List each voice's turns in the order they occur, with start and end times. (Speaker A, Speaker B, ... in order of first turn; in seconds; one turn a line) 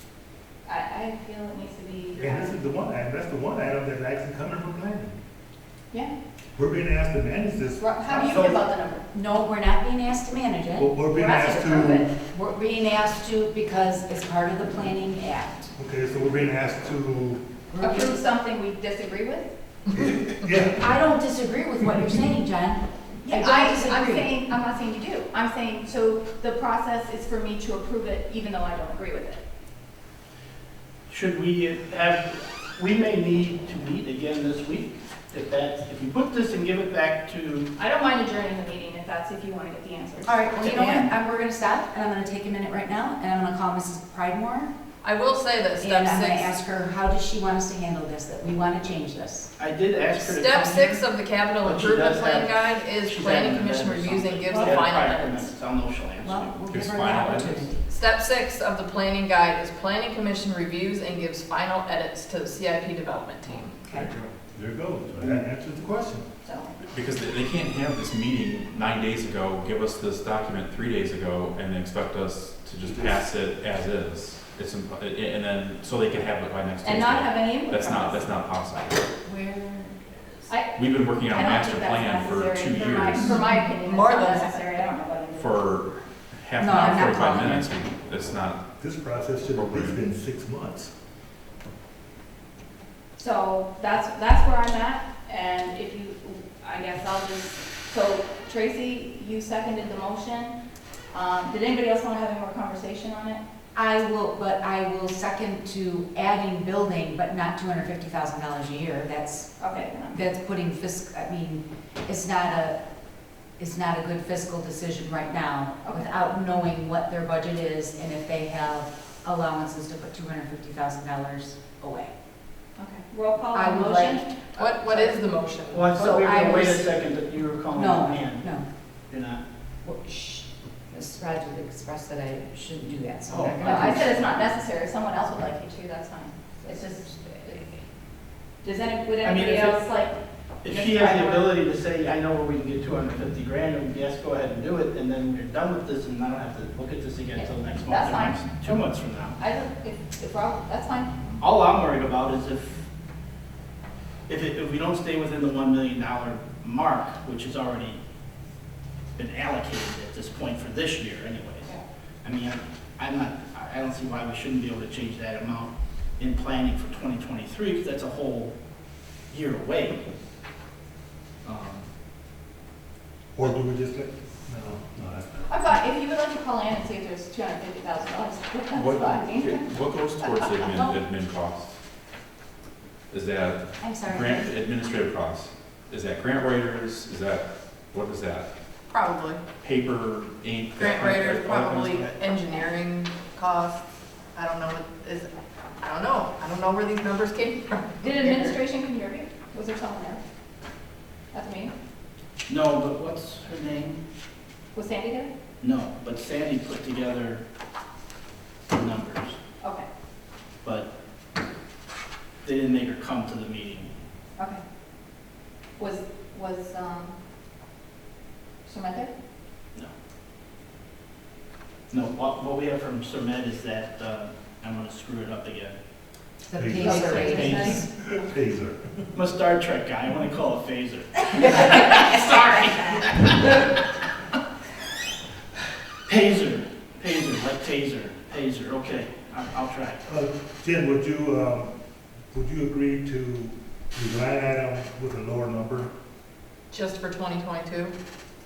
Speaker A: 0.7-2.5
Speaker B: 2.2-5.1
Speaker B: 6.6-8.4
Speaker A: 7.8-9.0
Speaker C: 8.1-8.6
Speaker C: 9.1-10.9
Speaker B: 10.8-12.0
Speaker A: 11.1-12.1
Speaker C: 12.1-15.7
Speaker B: 15.8-17.4
Speaker C: 17.7-18.2
Speaker A: 17.8-19.5
Speaker B: 20.1-20.8
Speaker C: 20.8-24.4
Speaker A: 23.2-29.4
Speaker D: 31.1-37.7
Speaker A: 37.8-40.4
Speaker C: 40.2-44.7
Speaker D: 40.6-41.1
Speaker E: 45.0-46.5
Speaker C: 45.8-49.6
Speaker D: 49.6-51.1
Speaker C: 50.1-50.9
Speaker E: 50.3-55.5
Speaker D: 51.6-56.6
Speaker C: 56.2-57.8
Speaker F: 56.7-57.7
Speaker E: 57.9-63.8
Speaker C: 63.8-64.1
Speaker B: 63.9-66.3
Speaker A: 66.4-66.8
Speaker F: 66.9-79.0
Speaker B: 72.8-73.1
Speaker A: 76.8-78.3
Speaker C: 79.2-79.9
Speaker A: 80.5-85.8
Speaker F: 80.7-83.4
Speaker E: 83.7-84.6
Speaker F: 85.4-88.6
Speaker C: 86.6-87.7
Speaker B: 88.8-90.9
Speaker F: 89.5-90.0
Speaker A: 93.2-100.6
Speaker A: 101.1-103.4
Speaker C: 103.8-109.6
Speaker A: 109.6-110.2
Speaker C: 110.1-112.8
Speaker C: 113.6-122.1
Speaker A: 115.8-116.1
Speaker A: 122.8-124.3
Speaker C: 123.5-125.1
Speaker E: 124.6-126.0
Speaker D: 125.7-128.5
Speaker C: 125.9-126.9
Speaker C: 127.7-128.7
Speaker D: 129.1-129.4
Speaker C: 129.8-134.1
Speaker D: 133.3-134.2
Speaker A: 133.6-137.7
Speaker C: 136.7-137.8
Speaker A: 138.6-141.6
Speaker D: 139.2-139.8
Speaker D: 140.6-149.4
Speaker A: 147.4-148.4
Speaker A: 149.4-151.2
Speaker D: 151.4-152.8
Speaker D: 154.3-158.0
Speaker D: 159.2-168.5
Speaker D: 169.3-170.0
Speaker D: 171.4-171.9
Speaker B: 173.3-175.5
Speaker A: 175.5-181.0
Speaker F: 178.7-181.8
Speaker F: 183.1-188.5
Speaker C: 183.8-184.5
Speaker E: 188.9-189.4
Speaker F: 189.6-192.2
Speaker E: 190.8-193.8
Speaker E: 194.3-195.3
Speaker E: 195.8-198.6
Speaker A: 198.0-200.2
Speaker A: 201.3-201.7
Speaker D: 202.5-204.0
Speaker A: 204.7-205.3
Speaker D: 205.6-207.4
Speaker D: 208.7-209.4
Speaker A: 209.6-209.9
Speaker D: 210.6-210.9
Speaker D: 212.4-213.9
Speaker A: 215.8-217.2
Speaker A: 218.7-219.1
Speaker D: 221.9-225.8
Speaker C: 226.4-227.9
Speaker B: 226.6-228.8
Speaker A: 226.8-227.9
Speaker D: 227.3-227.7
Speaker D: 229.1-233.5
Speaker D: 236.1-240.0
Speaker B: 240.1-241.7
Speaker B: 242.3-245.9
Speaker E: 246.7-247.9